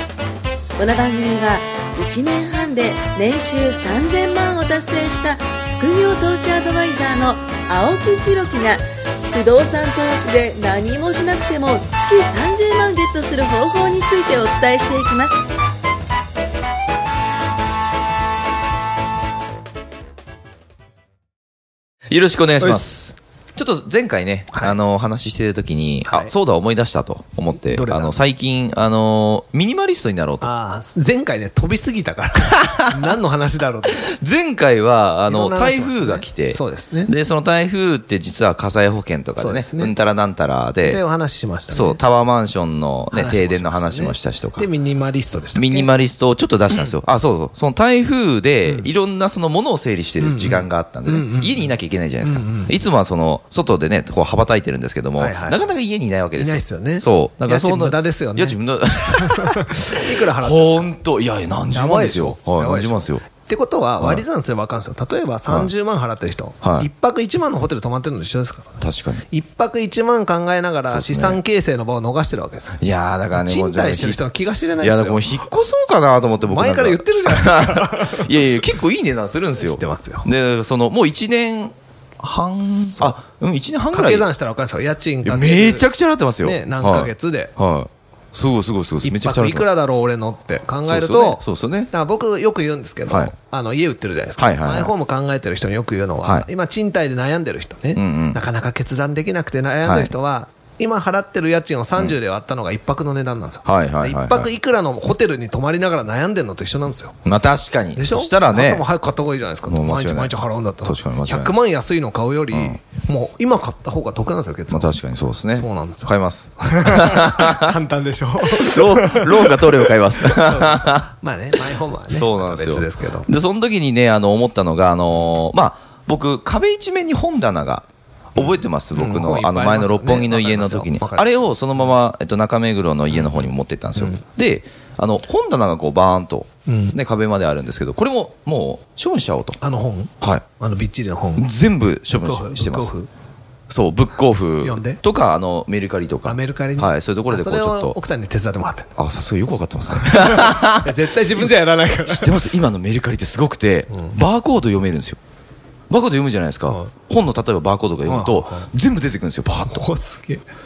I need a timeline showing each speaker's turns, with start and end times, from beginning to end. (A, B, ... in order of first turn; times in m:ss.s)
0:00.8-0:15.4 A
0:22.1-0:30.5 B
0:22.6-0:23.0 C
0:26.1-0:26.3 C
0:27.6-0:28.2 C
0:30.4-0:34.1 C
0:32.4-0:33.1 B
0:33.9-0:41.0 B
0:35.3-0:37.1 C
0:39.4-0:40.0 C
0:40.8-0:42.0 C
0:41.7-0:44.7 B
0:43.1-0:45.9 C
0:45.6-1:03.2 B
0:50.2-0:51.7 C
0:52.2-0:52.7 C
0:55.2-0:55.6 C
0:56.4-1:00.9 C
1:01.7-1:08.8 C
1:06.6-1:06.9 B
1:08.8-1:09.2 B
1:09.3-1:12.8 C
1:10.8-1:11.4 B
1:12.8-1:14.2 B
1:13.3-1:15.4 C
1:14.8-1:24.3 B
1:16.5-1:18.7 C
1:19.6-1:20.3 C
1:23.9-1:25.9 C
1:25.2-1:29.7 B
1:26.4-1:27.5 C
1:29.0-1:47.2 C
1:30.8-1:31.9 B
1:33.1-1:33.3 B
1:34.4-1:34.9 B
1:38.0-1:38.4 B
1:39.8-1:40.1 B
1:43.6-1:44.5 B
1:47.2-1:48.9 B
1:48.0-1:55.0 C
1:49.7-1:51.5 B
1:52.5-1:52.8 B
1:54.7-1:57.8 B
1:55.6-2:03.3 C
1:58.5-2:01.1 B
2:02.1-2:19.6 B
2:08.9-2:11.9 C
2:13.1-2:13.5 C
2:16.7-2:17.0 C
2:19.6-2:21.5 C
2:21.4-2:22.9 B
2:22.2-2:23.1 C
2:23.7-2:28.0 B
2:24.6-2:25.0 C
2:26.3-2:28.9 C
2:29.0-2:31.6 B
2:29.9-2:32.4 C
2:32.1-2:35.2 B
2:35.9-2:39.9 B
2:38.1-2:38.7 C
2:39.7-2:40.4 C